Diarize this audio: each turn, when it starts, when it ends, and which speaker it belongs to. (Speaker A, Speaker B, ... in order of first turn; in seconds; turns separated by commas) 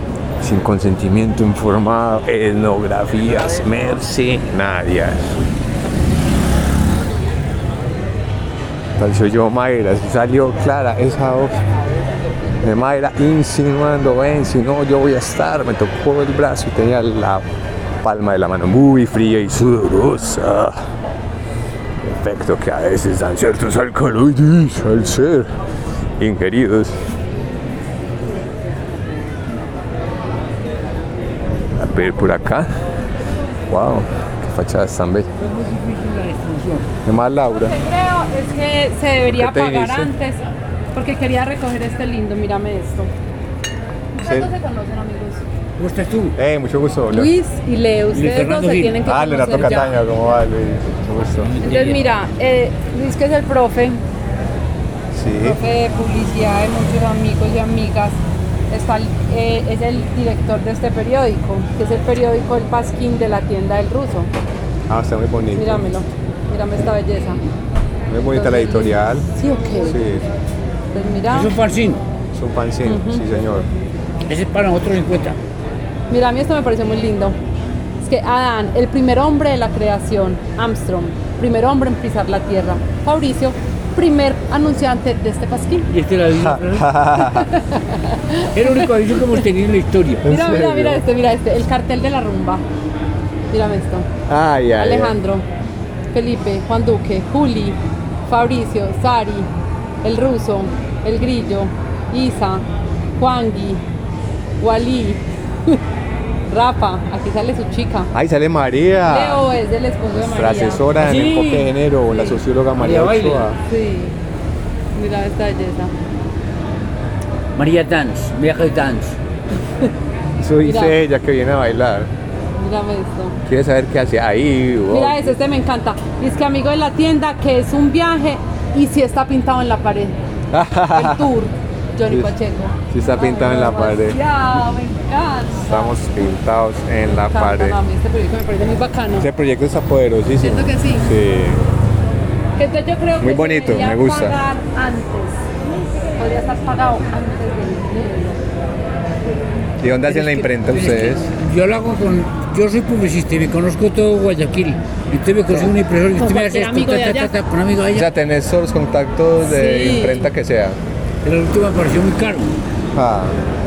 Speaker A: 0.4-5.4, Speaker A: 9.0-11.5, Speaker A: 12.6-17.4, Speaker A: 18.0-20.8, Speaker A: 22.0-25.5, Speaker A: 26.2-26.9, Speaker A: 31.8-32.7, Speaker A: 33.7-35.3, Speaker B: 35.4-36.9, Speaker A: 37.0-37.8, Speaker C: 37.6-40.4, Speaker A: 39.2-40.1, Speaker C: 40.9-43.1, Speaker C: 44.2-45.4, Speaker A: 44.2-44.5, Speaker B: 45.8-46.3, Speaker A: 46.4-47.3, Speaker C: 47.1-50.0, Speaker B: 48.1-49.9, Speaker A: 49.0-51.6, Speaker B: 51.6-52.0, Speaker C: 51.6-54.0, Speaker A: 55.1-55.6, Speaker C: 55.4-64.3, Speaker A: 64.9-65.9, Speaker C: 65.5-67.4, Speaker A: 68.1-69.3, Speaker C: 68.3-70.0, Speaker A: 69.8-70.3, Speaker C: 70.9-71.5, Speaker B: 71.3-72.0, Speaker A: 72.3-73.7, Speaker C: 72.8-73.2, Speaker B: 74.3-75.3, Speaker C: 76.1-77.4, Speaker C: 78.0-85.9, Speaker B: 85.9-86.9, Speaker A: 86.4-87.5, Speaker C: 87.2-89.4, Speaker B: 88.5-90.3, Speaker A: 90.2-91.0, Speaker C: 90.3-92.6, Speaker C: 93.5-94.1, Speaker A: 94.3-95.2, Speaker C: 94.8-95.5, Speaker C: 96.1-99.5, Speaker C: 100.0-102.7, Speaker C: 103.2-103.8, Speaker C: 104.6-105.8, Speaker C: 106.5-108.1, Speaker A: 108.1-109.4, Speaker C: 109.1-110.9, Speaker A: 110.1-113.6, Speaker B: 110.9-111.7, Speaker C: 112.1-112.4, Speaker B: 112.7-113.5, Speaker C: 113.7-114.2, Speaker C: 114.9-115.9, Speaker B: 117.5-119.2, Speaker A: 120.4-122.1, Speaker C: 120.6-121.0, Speaker C: 122.6-123.3, Speaker A: 123.5-125.3, Speaker C: 124.9-130.2, Speaker A: 130.5-131.3, Speaker C: 130.9-135.9, Speaker A: 132.1-132.3, Speaker A: 132.9-134.2, Speaker A: 135.6-137.8, Speaker C: 137.0-139.3, Speaker A: 139.2-141.6, Speaker C: 140.4-141.1, Speaker C: 142.6-145.6, Speaker A: 143.2-144.4, Speaker C: 146.1-148.4, Speaker A: 149.8-151.3, Speaker B: 150.0-158.1, Speaker C: 155.6-157.4, Speaker A: 157.9-160.8, Speaker C: 159.4-160.3, Speaker B: 161.2-162.6, Speaker A: 162.9-163.4